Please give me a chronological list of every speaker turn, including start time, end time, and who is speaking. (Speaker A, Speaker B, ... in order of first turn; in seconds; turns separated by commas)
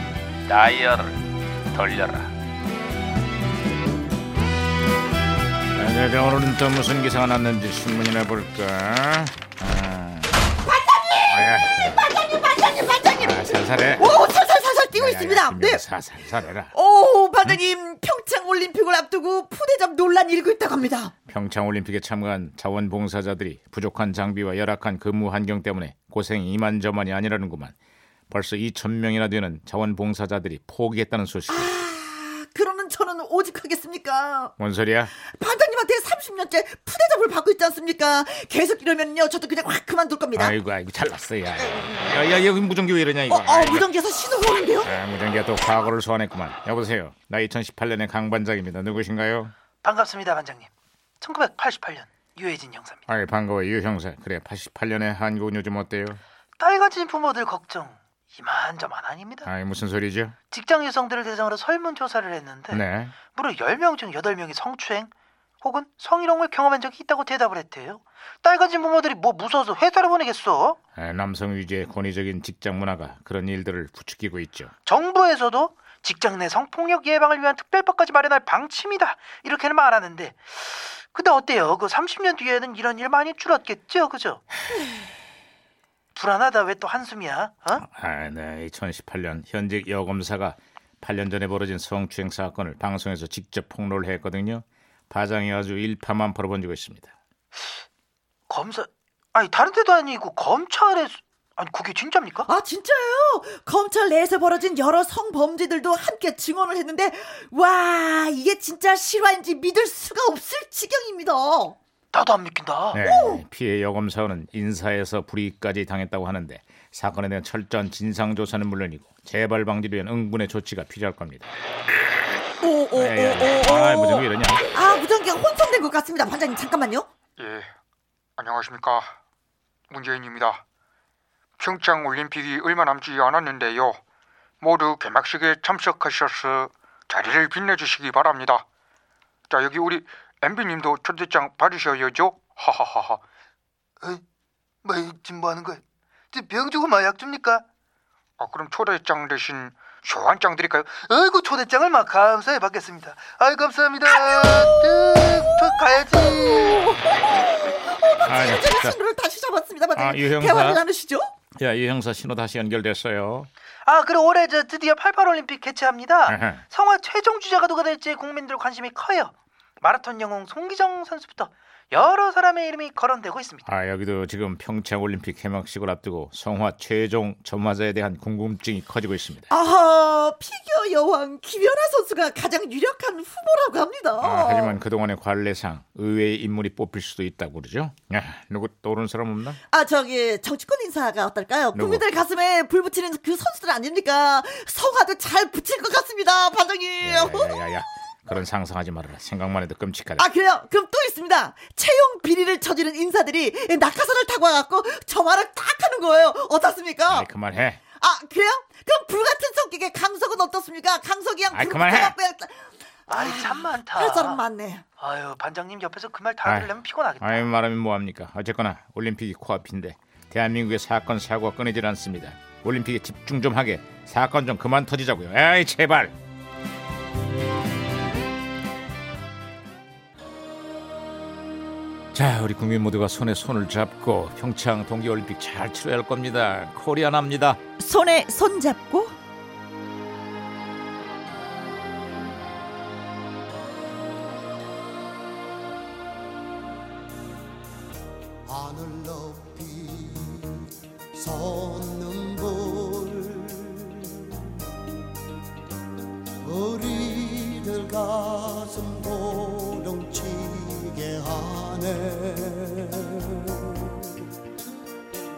Speaker A: 0.5-2.3, Speaker A: 5.7-10.4, Speaker B: 10.6-15.8, Speaker A: 11.3-12.0, Speaker A: 13.2-14.2, Speaker A: 14.9-16.7, Speaker B: 16.7-21.1, Speaker A: 21.3-27.7, Speaker A: 28.3-31.7, Speaker B: 31.5-34.5, Speaker A: 34.6-35.1, Speaker B: 35.2-40.5, Speaker A: 40.3-43.9, Speaker B: 43.3-44.9, Speaker A: 44.8-49.5, Speaker C: 49.8-50.7, Speaker C: 51.2-53.0, Speaker A: 53.1-56.2, Speaker C: 56.6-59.5, Speaker A: 59.5-60.4, Speaker C: 60.5-65.1, Speaker A: 62.7-63.2, Speaker C: 65.6-70.8, Speaker A: 71.0-74.7, Speaker C: 74.8-84.4, Speaker C: 86.1-87.8, Speaker A: 87.8-97.1, Speaker C: 98.5-102.5, Speaker B: 102.5-111.8, Speaker C: 112.1-113.0, Speaker A: 112.9-121.5, Speaker B: 113.0-113.4, Speaker B: 122.6-127.1, Speaker A: 122.9-124.7, Speaker D: 127.4-127.7, Speaker D: 128.4-129.1, Speaker D: 129.9-130.6, Speaker D: 131.6-134.0, Speaker D: 134.6-138.6, Speaker D: 139.5-143.2, Speaker C: 144.8-145.8, Speaker C: 146.3-147.6, Speaker D: 148.4-150.9, Speaker C: 150.9-157.0, Speaker B: 156.2-161.3, Speaker A: 158.2-159.0, Speaker A: 160.0-160.8, Speaker A: 161.6-163.5, Speaker C: 163.8-173.7, Speaker A: 166.3-166.6, Speaker A: 173.7-179.5, Speaker B: 179.5-184.8, Speaker A: 184.2-189.6, Speaker B: 189.7-197.6, Speaker A: 191.7-192.1, Speaker A: 197.0-200.2, Speaker B: 200.2-207.3, Speaker A: 207.1-207.8, Speaker B: 207.9-214.8, Speaker A: 211.5-212.2, Speaker C: 213.1-214.4, Speaker C: 215.0-217.5, Speaker A: 216.4-226.1, Speaker A: 232.1-237.6, Speaker B: 237.8-239.1, Speaker E: 248.5-250.6, Speaker E: 251.1-254.4, Speaker E: 256.4-264.0